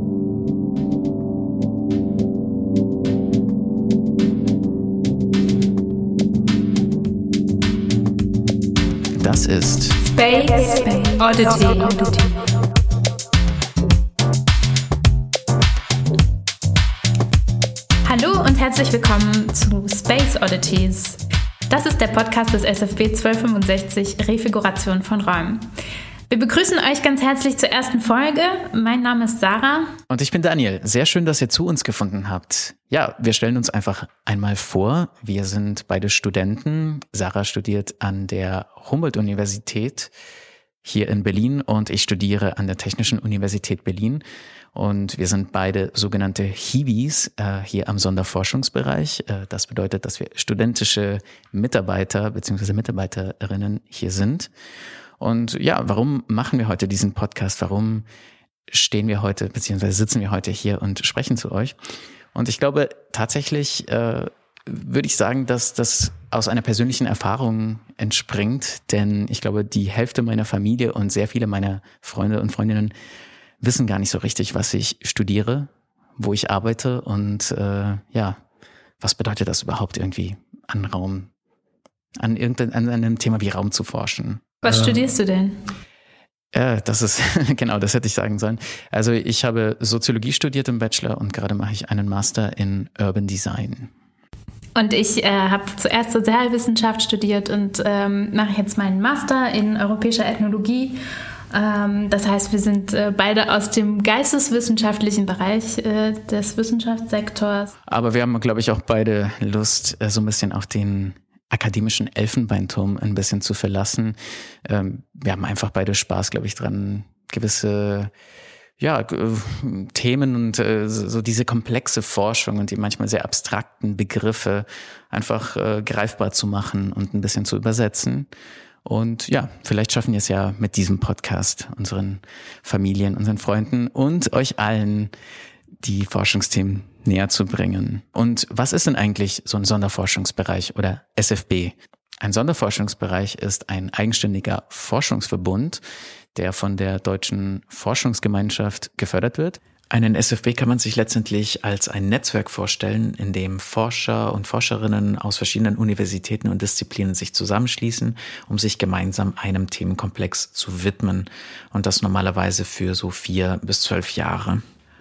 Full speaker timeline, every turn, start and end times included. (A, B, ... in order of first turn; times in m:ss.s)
0:09.1-0:10.0 A
0:10.1-0:12.5 B
0:18.0-0:25.7 B
0:26.3-0:30.0 B
0:30.1-0:40.1 A
0:40.8-0:54.5 A
0:55.2-0:58.1 A
0:58.7-1:01.8 A
1:02.3-1:12.9 A
1:13.6-1:18.4 A
1:19.0-1:21.3 A
1:22.2-1:24.7 A
1:24.6-1:25.7 B
1:26.5-1:33.9 A
1:34.8-1:41.0 B
1:41.5-1:47.7 B
1:47.9-1:58.1 A
1:58.8-2:08.3 A
2:08.8-2:15.1 A
2:15.8-2:25.8 A
2:26.4-2:44.6 A